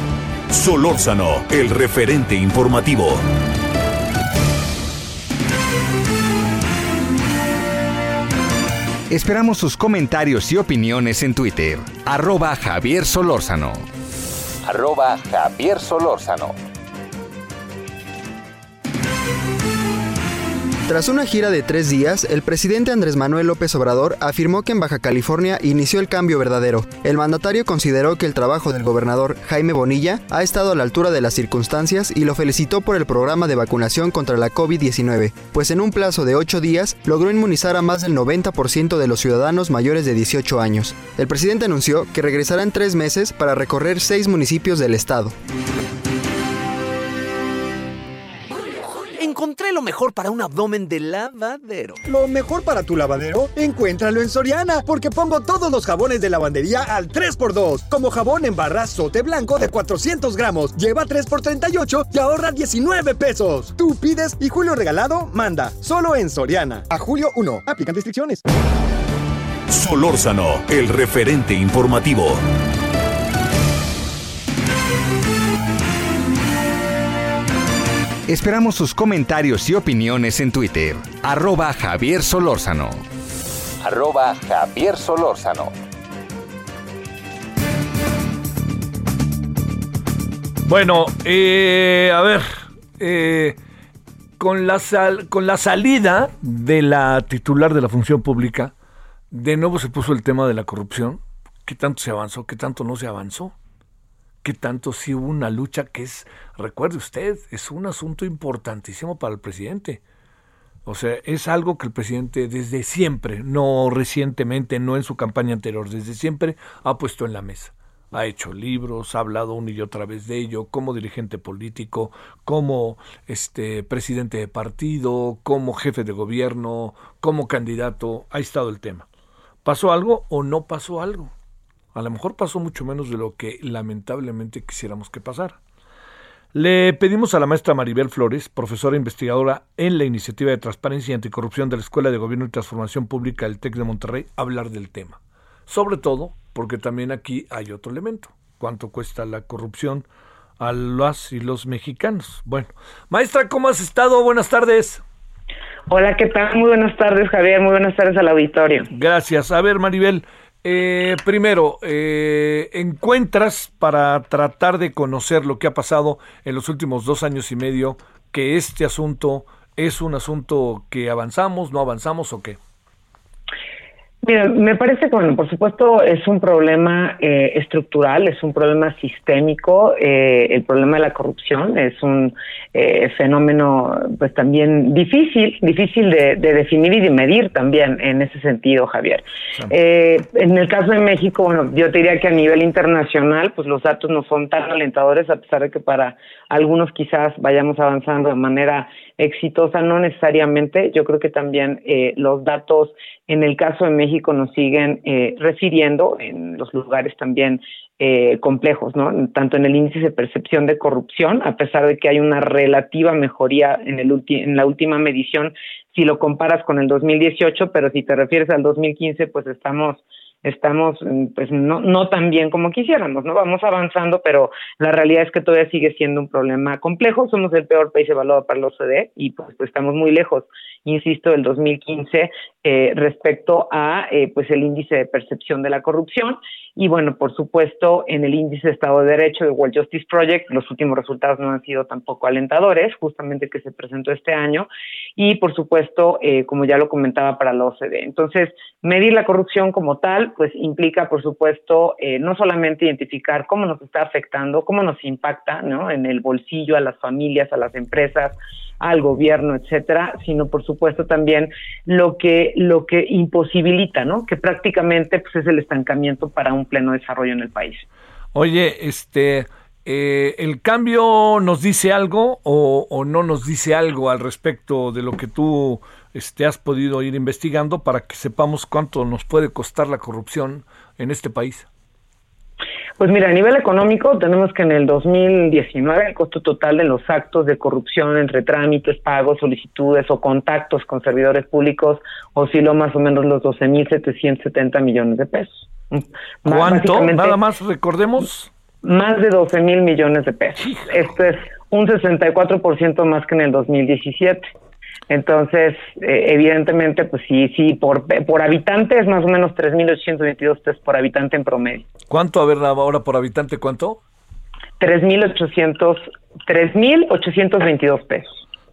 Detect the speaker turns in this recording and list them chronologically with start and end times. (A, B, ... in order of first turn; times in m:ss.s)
0:00.5-0:03.2 A
0:09.1-0:13.8 B
0:14.6-0:16.5 B
0:20.9-0:45.3 C
0:49.1-0:52.0 D
0:52.1-1:08.4 E
1:09.7-1:12.4 A
1:18.3-1:23.0 B
1:23.8-1:25.7 B
1:30.7-1:33.6 F
1:34.4-1:38.7 F
1:39.3-1:43.5 F
1:44.4-1:50.0 F
1:50.8-2:09.0 F
2:09.6-2:11.3 F
2:11.9-2:15.6 F
2:16.5-2:30.0 F
2:30.6-2:35.0 F
2:35.9-2:38.9 G
2:38.9-2:52.6 F
2:54.2-4:27.8 G
4:28.3-4:41.7 F
4:43.0-4:57.4 G
4:56.5-4:58.5 F
4:58.8-5:04.4 G
5:00.6-5:01.0 F
5:05.1-5:11.9 G
5:12.1-5:14.0 F
5:14.8-5:18.4 G